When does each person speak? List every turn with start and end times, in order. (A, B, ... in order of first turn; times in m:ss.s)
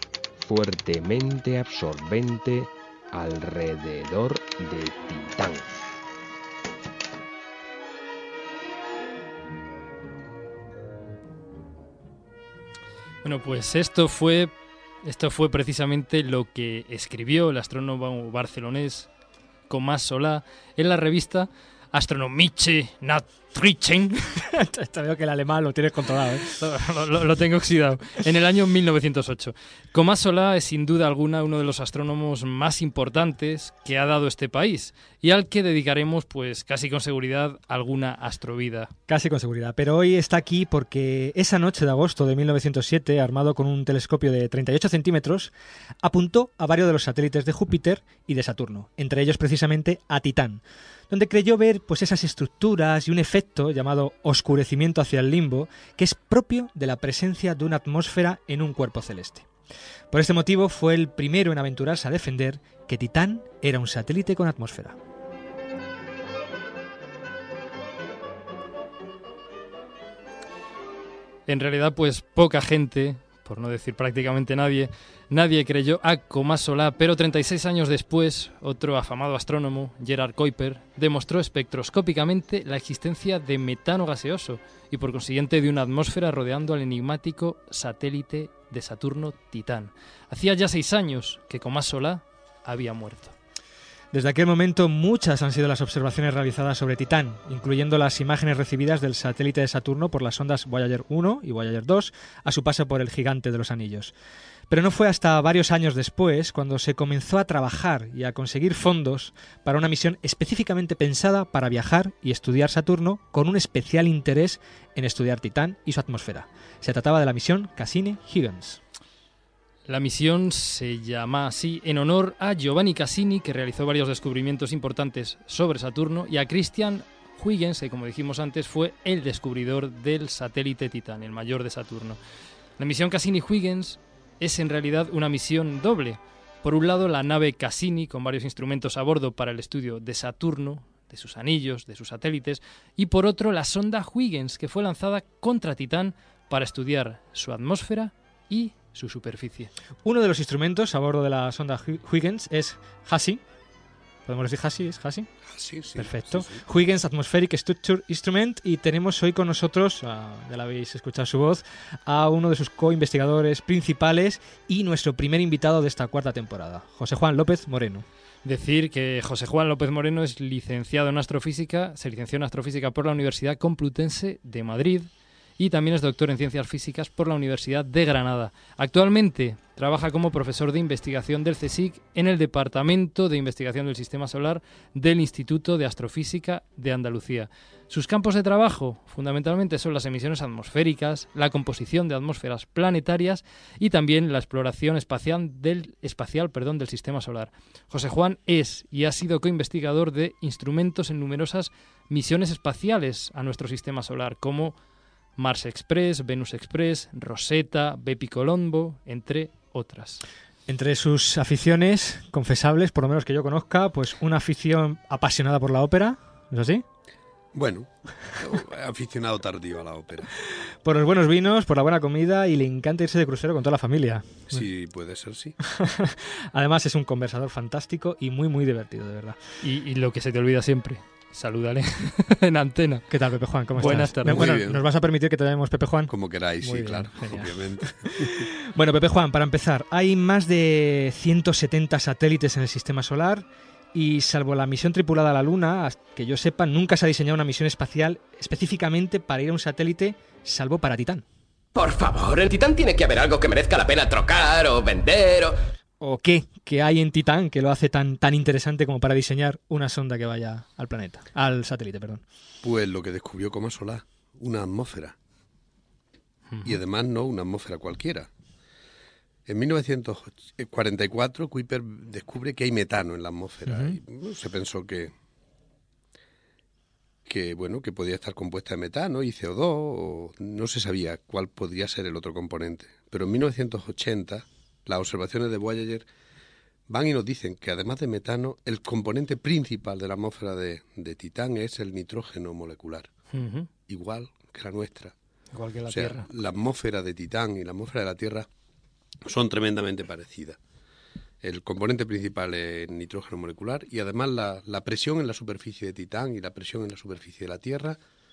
0:00.4-0:05.8 A
0:13.2-0:14.5 B
0:15.0-0:19.1 B
0:19.7-0:24.3 B
0:24.4-0:26.5 C
0:26.5-0:38.9 B
0:39.1-0:59.5 C
1:00.1-1:05.0 C
1:11.5-1:33.4 B
1:34.1-1:44.1 C
1:44.7-1:58.8 C
1:59.9-2:12.2 B
2:12.8-2:29.7 B
2:30.0-2:33.4 C
2:34.3-2:35.3 C
2:35.5-2:36.6 D
2:36.0-2:48.1 C
2:48.4-3:24.8 B
3:25.4-3:30.2 B
3:30.7-3:36.8 C
3:37.5-3:40.3 D
3:40.8-3:44.6 C
3:44.5-3:45.6 D
3:45.6-3:49.4 C
3:49.6-3:53.1 B
3:53.1-4:11.2 C
3:53.7-3:54.6 B
3:53.8-3:54.8 D
3:56.1-3:58.5 D
4:11.8-4:15.6 E
4:16.0-4:22.2 C
4:22.6-4:25.2 D
4:26.5-4:26.8 B
4:26.6-4:28.3 D
4:29.5-4:35.1 D
4:33.7-4:34.0 C
4:37.3-4:46.1 D
4:46.9-4:53.1 D
4:53.3-4:53.7 B
4:53.9-4:55.1 D
4:55.5-4:56.2 B
4:55.9-4:58.5 D
4:59.2-5:00.6 D
5:01.4-5:08.0 D